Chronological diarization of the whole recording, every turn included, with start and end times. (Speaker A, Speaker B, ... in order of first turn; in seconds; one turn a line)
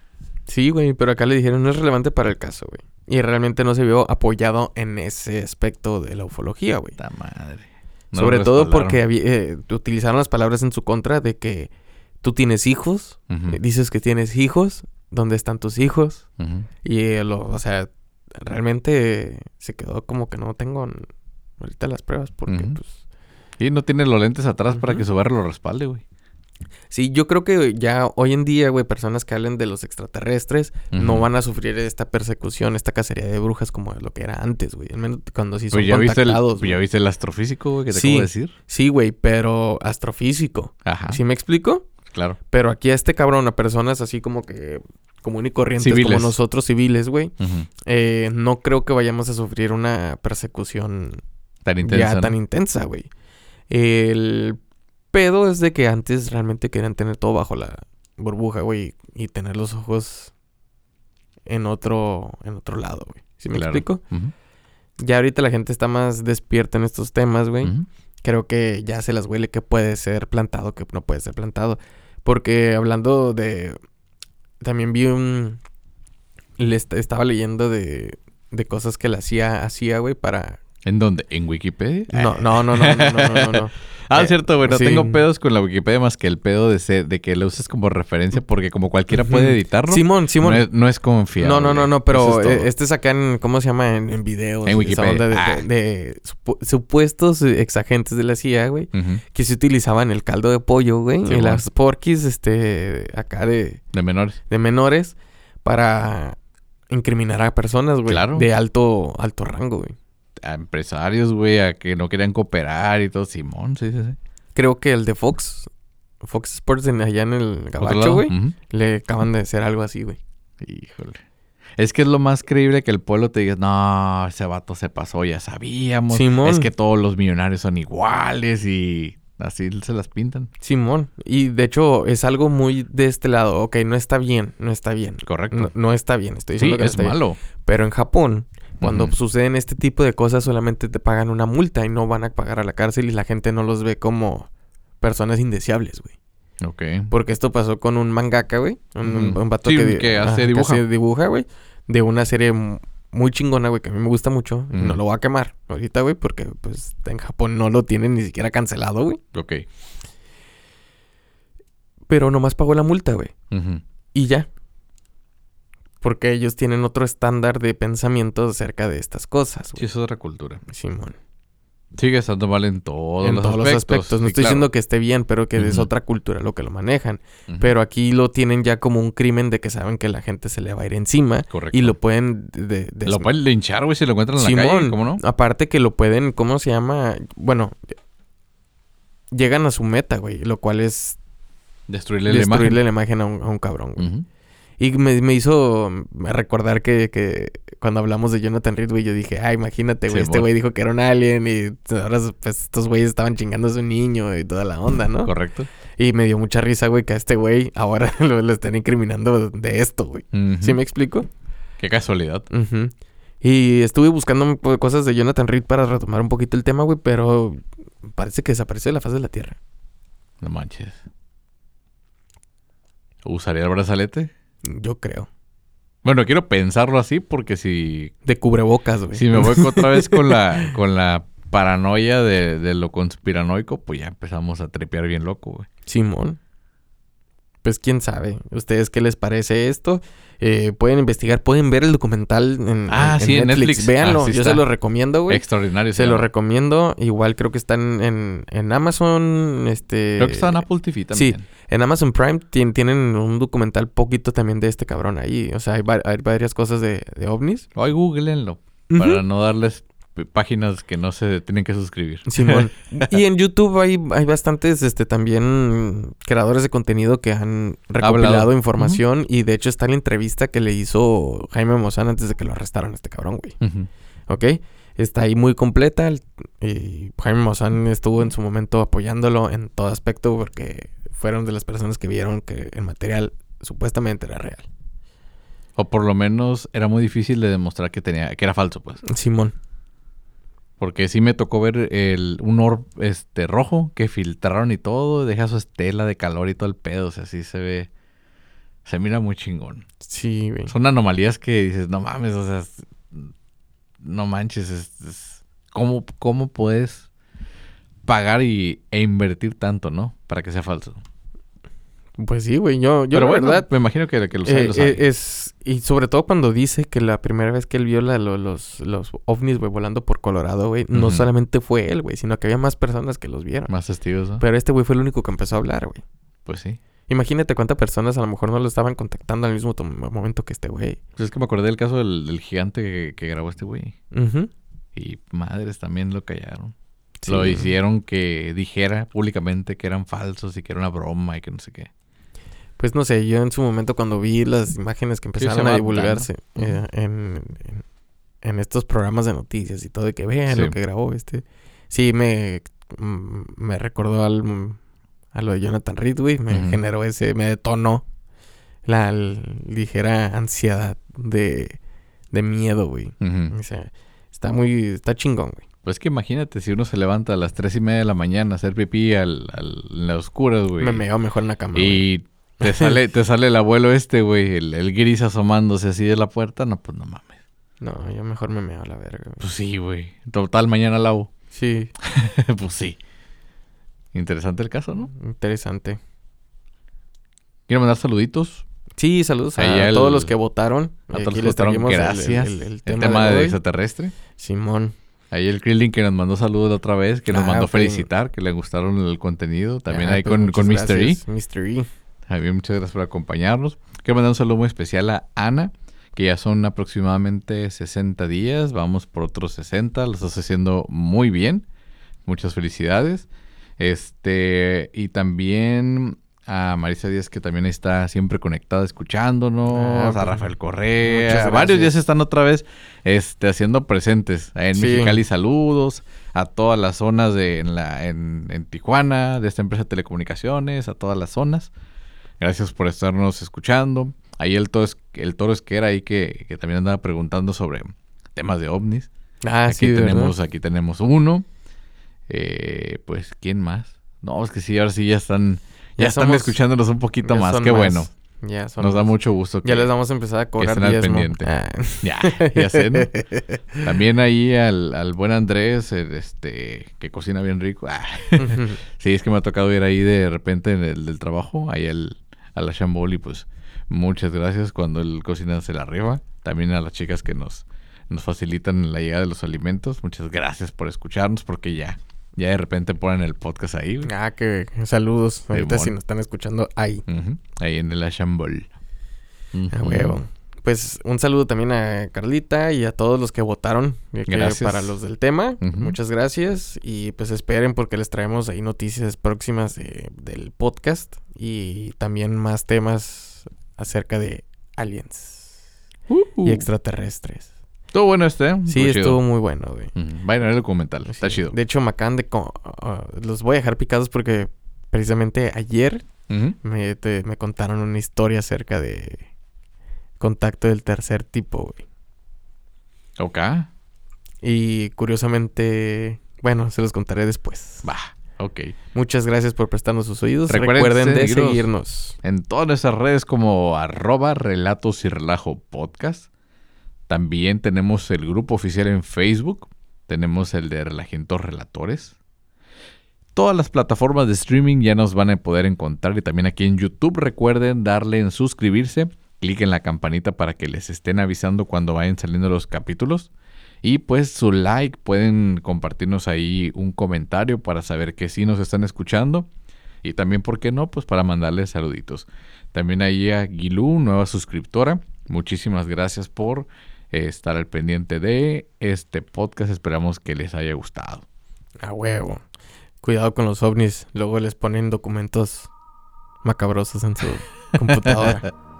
Speaker A: 0.5-7.0
Speaker B: 7.0-9.0
Speaker A: 8.1-11.7
Speaker A: 12.2-16.2
Speaker B: 13.3-13.6
Speaker B: 16.4-16.7
Speaker A: 16.8-21.1
Speaker A: 21.6-22.9
Speaker B: 22.5-22.8
Speaker B: 23.6-26.0
Speaker A: 24.7-25.0
Speaker A: 26.9-36.8
Speaker B: 30.9-31.3
Speaker B: 35.7-38.5
Speaker A: 37.9-41.9
Speaker B: 40.8-41.2
Speaker B: 42.1-42.4
Speaker A: 42.5-51.2
Speaker B: 45.8-46.4
Speaker B: 47.4-47.7
Speaker B: 51.6-52.3
Speaker A: 51.8-53.1
Speaker A: 53.7-54.6
Speaker A: 55.1-60.3
Speaker A: 61.5-64.0
Speaker B: 63.5-64.3
Speaker A: 65.0-73.8
Speaker A: 74.6-75.6
Speaker A: 76.6-80.6
Speaker B: 80.8-92.7
Speaker A: 82.1-85.2
Speaker A: 89.1-90.7
Speaker A: 91.4-103.8
Speaker B: 94.6-95.7
Speaker B: 98.9-99.2
Speaker B: 101.2-101.6
Speaker B: 103.9-104.4
Speaker A: 104.5-106.4
Speaker A: 106.9-110.0
Speaker B: 108.1-108.5
Speaker B: 110.4-114.2
Speaker A: 114.5-115.7
Speaker A: 116.2-120.2
Speaker B: 117.8-118.5
Speaker B: 120.6-121.2
Speaker B: 121.8-130.5
Speaker A: 126.1-126.7
Speaker A: 130.6-144.5
Speaker B: 135.2-135.7
Speaker B: 136.6-137.4
Speaker B: 138.8-139.1
Speaker A: 145.0-146.1
Speaker B: 146.6-147.1
Speaker A: 147.1-159.2
Speaker B: 149.0-150.8
Speaker B: 154.7-155.0
Speaker B: 159.3-159.6
Speaker A: 162.1-163.3
Speaker B: 163.5-163.8
Speaker A: 164.1-164.5
Speaker A: 166.0-169.8
Speaker B: 169.8-170.6
Speaker A: 170.7-171.2
Speaker B: 171.9-174.7
Speaker A: 173.2-183.3
Speaker B: 175.6-175.9
Speaker B: 177.5-177.7
Speaker B: 181.5-181.9
Speaker B: 183.1-185.2
Speaker A: 184.4-187.8
Speaker A: 189.3-191.2
Speaker B: 191.9-192.8
Speaker A: 192.3-194.1
Speaker B: 194.0-194.2
Speaker A: 194.8-205.3
Speaker B: 200.1-200.5
Speaker B: 205.2-205.7
Speaker A: 206.0-211.3
Speaker B: 210.3-210.8
Speaker B: 211.8-212.5
Speaker A: 212.5-219.6
Speaker B: 220.4-221.0
Speaker B: 223.2-224.3
Speaker A: 224.6-225.3
Speaker B: 226.0-228.1
Speaker A: 228.2-230.7
Speaker B: 229.1-235.7
Speaker A: 235.9-236.4
Speaker A: 237.6-257.7
Speaker B: 242.9-244.6
Speaker B: 245.3-246.2
Speaker B: 250.2-251.4
Speaker B: 257.7-263.0
Speaker A: 258.9-259.2
Speaker A: 262.2-273.6
Speaker B: 268.0-269.0
Speaker B: 273.6-273.9
Speaker A: 274.3-284.6
Speaker B: 285.8-289.0
Speaker A: 289.1-289.5
Speaker B: 290.8-297.9
Speaker B: 298.8-299.8
Speaker A: 300.1-300.7
Speaker B: 300.7-303.3
Speaker B: 304.0-307.1
Speaker B: 308.0-311.0
Speaker A: 312.2-313.7
Speaker B: 313.1-315.0
Speaker A: 314.4-323.7
Speaker B: 320.9-321.3
Speaker B: 323.7-324.4
Speaker A: 324.4-326.0
Speaker B: 326.4-326.8
Speaker A: 327.1-331.0
Speaker B: 331.2-333.9
Speaker A: 334.1-334.5
Speaker B: 334.9-336.7
Speaker A: 337.2-337.7
Speaker B: 337.3-341.9
Speaker A: 342.8-347.8
Speaker B: 345.4-346.8
Speaker A: 348.4-354.8
Speaker B: 350.5-350.7
Speaker A: 355.3-358.0
Speaker B: 356.5-356.8
Speaker A: 358.9-361.8
Speaker A: 362.3-365.6
Speaker B: 363.2-363.5
Speaker B: 365.8-371.0
Speaker A: 370.8-372.0
Speaker B: 371.7-377.4
Speaker A: 372.6-373.0
Speaker A: 377.8-379.4
Speaker B: 379.4-381.3
Speaker A: 381.5-381.9
Speaker B: 382.0-383.0
Speaker B: 384.1-385.1
Speaker A: 385.1-386.0
Speaker B: 387.7-388.6
Speaker A: 389.0-393.6
Speaker B: 389.6-390.3
Speaker B: 391.1-394.1
Speaker A: 394.4-394.9
Speaker B: 395.3-401.2
Speaker A: 397.3-398.1
Speaker A: 399.9-401.9
Speaker B: 402.3-411.6
Speaker B: 412.2-431.7
Speaker A: 419.7-420.5
Speaker A: 421.0-421.9
Speaker A: 424.7-425.2
Speaker B: 432.4-439.1
Speaker A: 439.4-440.3
Speaker B: 439.7-441.5
Speaker B: 442.3-448.1
Speaker A: 446.0-446.6
Speaker A: 447.2-453.9
Speaker B: 448.8-449.9
Speaker B: 450.6-451.5
Speaker B: 452.0-453.1
Speaker B: 453.8-474.1
Speaker A: 458.4-458.8
Speaker A: 474.0-477.0
Speaker B: 475.5-475.9
Speaker B: 477.1-478.7
Speaker B: 479.5-480.2
Speaker A: 479.7-495.5
Speaker B: 484.3-485.0
Speaker B: 485.6-485.9
Speaker B: 496.1-496.6
Speaker A: 496.4-497.5
Speaker B: 497.9-499.2
Speaker A: 498.7-499.9
Speaker B: 499.9-501.5
Speaker A: 501.1-506.0
Speaker B: 506.3-506.6
Speaker A: 506.6-509.2
Speaker A: 510.2-511.8
Speaker B: 513.2-513.7
Speaker A: 514.4-517.9
Speaker B: 517.8-518.7
Speaker A: 518.9-522.2
Speaker B: 520.5-521.7
Speaker B: 522.2-526.3
Speaker B: 527.1-532.1
Speaker B: 533.3-543.3
Speaker B: 543.8-549.5
Speaker B: 550.0-561.2
Speaker A: 561.8-562.4
Speaker A: 563.0-565.7
Speaker A: 566.4-568.5
Speaker B: 568.0-568.4